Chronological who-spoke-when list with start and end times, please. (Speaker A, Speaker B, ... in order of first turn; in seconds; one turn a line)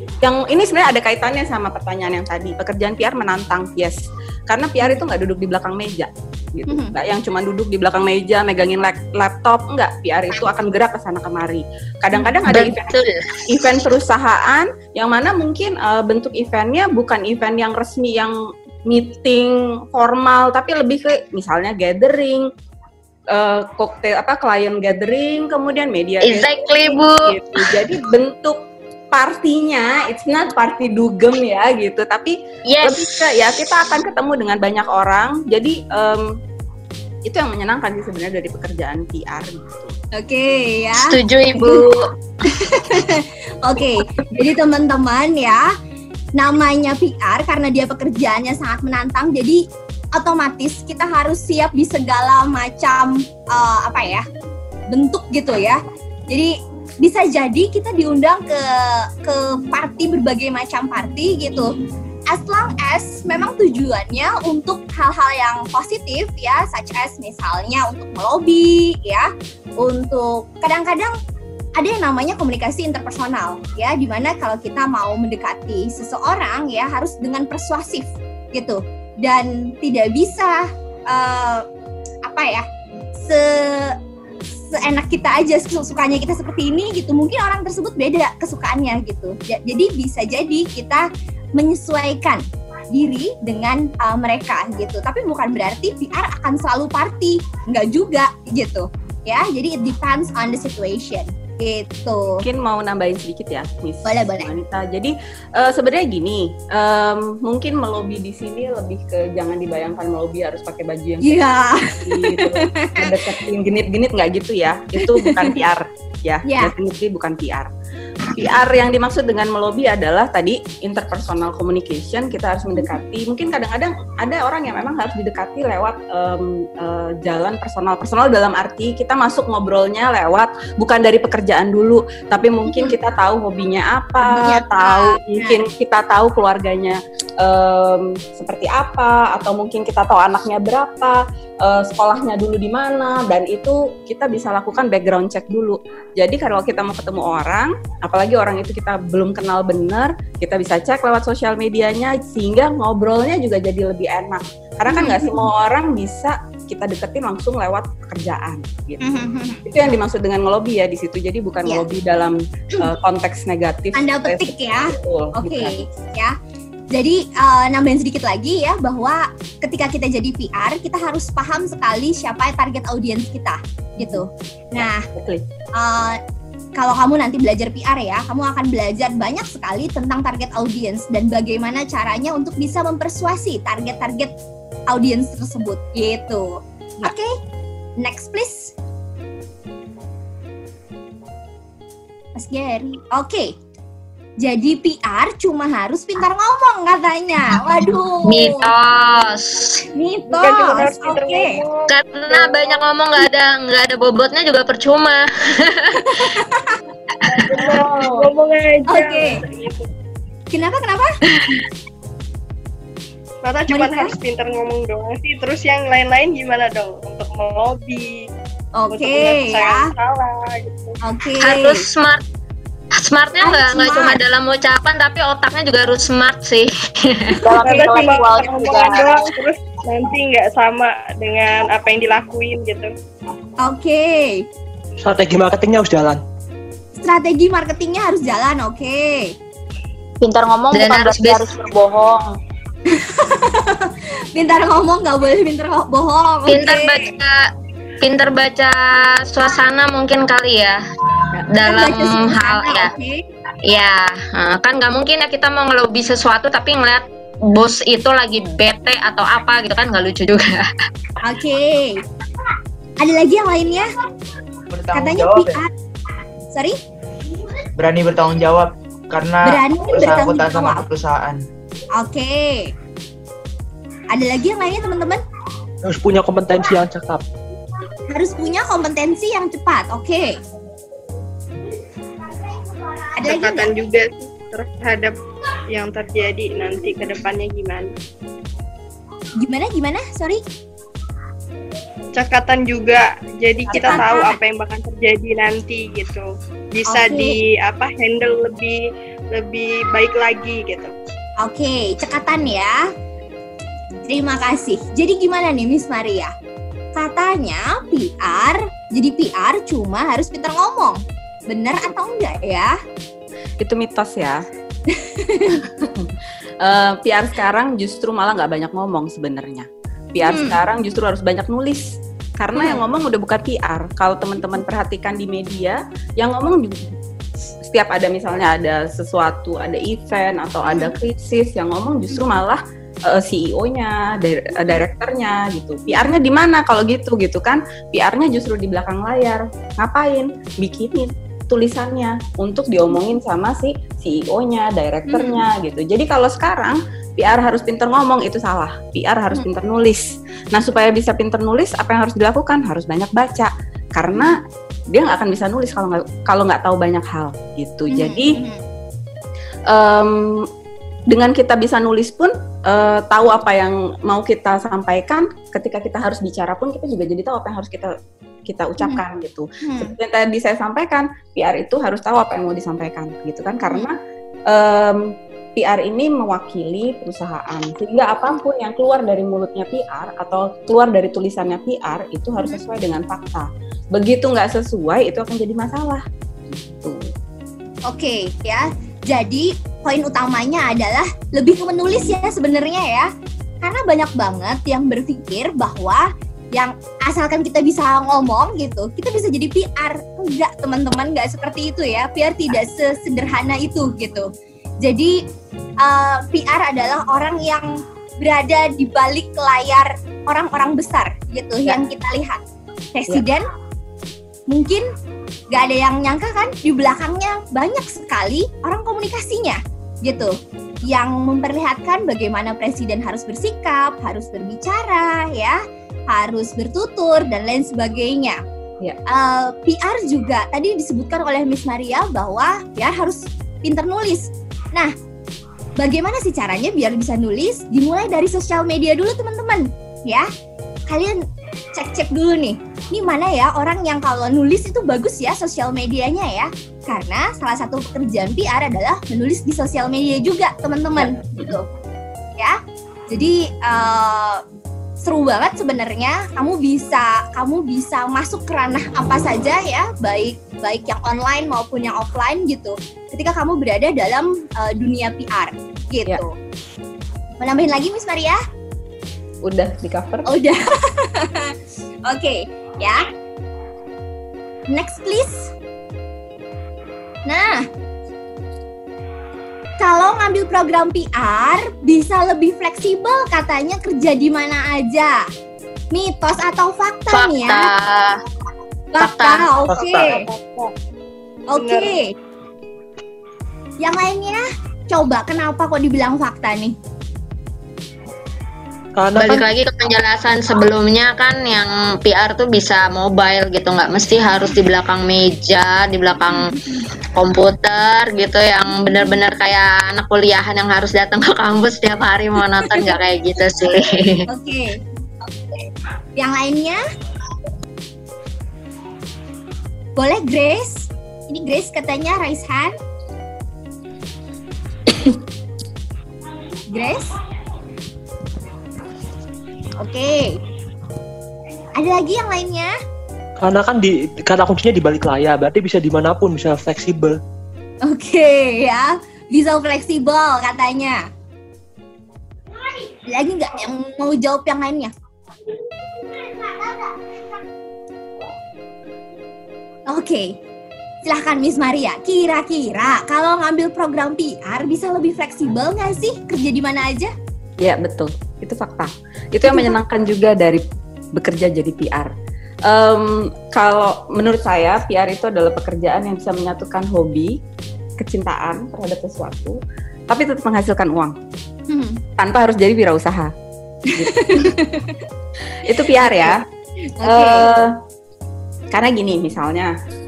Speaker A: 0.2-12.9
Speaker B: 6.7-7.0
Speaker C: 12.5-13.7
Speaker A: 13.5-18.3
Speaker A: 18.9-22.4
Speaker A: 23.3-28.6
Speaker C: 26.2-27.8
Speaker A: 29.1-36.3
Speaker C: 32.7-33.5
Speaker A: 37.3-39.9
Speaker B: 40.1-41.9
Speaker C: 41.0-42.0
Speaker B: 42.5-45.6
Speaker B: 46.4-49.6
Speaker B: 50.1-54.2
Speaker B: 54.9-61.7
Speaker B: 62.3-69.3
Speaker B: 69.8-71.1
Speaker B: 71.8-81.6
Speaker B: 82.2-82.6
Speaker B: 83.2-84.0
Speaker B: 84.6-91.0
Speaker B: 91.6-102.4
Speaker A: 102.3-117.7
Speaker B: 104.1-104.5
Speaker B: 111.2-113.1
Speaker B: 115.0-115.6
Speaker B: 116.5-116.7
Speaker A: 118.3-165.9
Speaker B: 132.7-132.9
Speaker B: 134.2-135.6
Speaker B: 154.9-155.5
Speaker B: 159.0-159.6
Speaker B: 163.9-166.3
Speaker B: 166.9-175.1
Speaker A: 174.0-174.2
Speaker A: 174.8-175.4
Speaker B: 175.8-176.2
Speaker B: 176.8-184.3
Speaker B: 184.9-187.3
Speaker B: 188.0-188.7
Speaker B: 192.4-193.5
Speaker B: 194.4-198.7
Speaker C: 198.3-199.8
Speaker B: 199.9-201.6
Speaker D: 200.3-202.8
Speaker C: 201.9-206.3
Speaker B: 206.0-206.8
Speaker D: 207.3-209.9
Speaker B: 208.9-209.4
Speaker B: 210.5-211.2
Speaker C: 211.4-211.6
Speaker D: 213.4-218.2
Speaker B: 213.7-214.1
Speaker B: 218.8-219.9
Speaker D: 218.9-221.0
Speaker B: 221.0-221.8
Speaker C: 221.4-222.2
Speaker C: 223.0-227.3
Speaker B: 223.4-224.2
Speaker E: 227.4-229.2
Speaker D: 227.5-232.9
Speaker B: 227.6-228.0
Speaker B: 233.6-234.4
Speaker F: 235.0-236.2
Speaker B: 237.0-239.3
Speaker E: 240.2-242.3
Speaker C: 240.7-241.5
Speaker B: 242.9-247.1
Speaker C: 246.5-247.5
Speaker C: 248.0-250.8
Speaker C: 251.5-252.9
Speaker B: 251.5-253.2
Speaker C: 253.7-260.8
Speaker B: 261.2-262.0
Speaker B: 263.0-263.9
Speaker G: 264.7-265.6
Speaker B: 264.9-265.7
Speaker B: 266.5-266.8
Speaker G: 267.8-271.4
Speaker B: 269.4-270.9
Speaker B: 272.0-272.7
Speaker B: 274.1-275.2
Speaker F: 275.9-277.2
Speaker B: 278.1-280.4
Speaker B: 283.2-283.7
Speaker D: 283.2-285.2
Speaker D: 285.7-287.9
Speaker B: 289.4-290.4
Speaker D: 292.1-298.8
Speaker B: 293.7-294.4
Speaker B: 296.9-297.4
Speaker D: 299.3-300.9
Speaker B: 301.4-302.8
Speaker B: 304.1-306.3
Speaker B: 306.9-312.8
Speaker A: 313.6-314.4
Speaker B: 314.9-315.6
Speaker A: 315.6-326.7
Speaker B: 320.2-320.6
Speaker B: 322.5-322.8
Speaker A: 327.4-358.4
Speaker B: 330.6-330.9
Speaker B: 345.1-345.4
Speaker B: 357.9-358.6
Speaker A: 359.7-360.4
Speaker A: 361.1-367.9
Speaker A: 368.4-374.0
Speaker B: 369.6-369.9
Speaker A: 374.5-375.1
Speaker A: 375.6-386.0
Speaker A: 386.6-387.1
Speaker B: 387.9-393.1
Speaker B: 393.6-404.3
Speaker B: 404.8-405.2
Speaker B: 405.8-412.4
Speaker B: 412.9-413.4
Speaker B: 414.5-414.9
Speaker B: 415.5-420.4
Speaker B: 420.9-425.6
Speaker B: 426.1-428.4
Speaker B: 429.1-434.9
Speaker B: 435.8-440.2
Speaker B: 440.9-451.7
Speaker A: 451.0-451.6
Speaker B: 453.1-454.4
Speaker B: 455.0-466.3
Speaker B: 467.4-468.4
Speaker A: 469.4-470.3
Speaker B: 470.3-471.5
Speaker B: 472.1-473.1
Speaker B: 474.7-475.5
Speaker B: 477.2-477.6
Speaker B: 479.8-485.2
Speaker B: 485.9-487.7
Speaker C: 487.1-488.2
Speaker B: 488.9-490.2
Speaker C: 489.0-489.5
Speaker F: 489.7-490.1
Speaker D: 489.9-490.7
Speaker B: 491.5-492.1
Speaker D: 491.5-492.0
Speaker B: 493.8-496.8
Speaker F: 498.9-499.5
Speaker C: 499.1-506.5
Speaker B: 506.3-506.9
Speaker C: 507.1-514.2
Speaker B: 512.6-512.9
Speaker B: 514.3-514.8
Speaker B: 516.2-516.8
Speaker B: 520.0-522.8
Speaker B: 526.7-527.1
Speaker B: 529.8-530.4
Speaker B: 531.8-532.7
Speaker F: 533.4-537.2
Speaker B: 537.8-541.0
Speaker B: 543.1-544.9
Speaker B: 549.9-550.3
Speaker B: 551.0-557.1
Speaker A: 557.6-560.6
Speaker B: 559.5-559.8
Speaker A: 561.1-562.1
Speaker A: 562.7-567.4
Speaker A: 568.0-569.6
Speaker A: 570.1-571.1
Speaker B: 571.7-572.0
Speaker A: 572.2-573.3
Speaker B: 573.9-575.0
Speaker A: 573.9-574.5
Speaker A: 575.6-576.4
Speaker B: 575.6-576.4
Speaker B: 577.0-577.5
Speaker A: 577.0-577.7
Speaker A: 578.7-579.7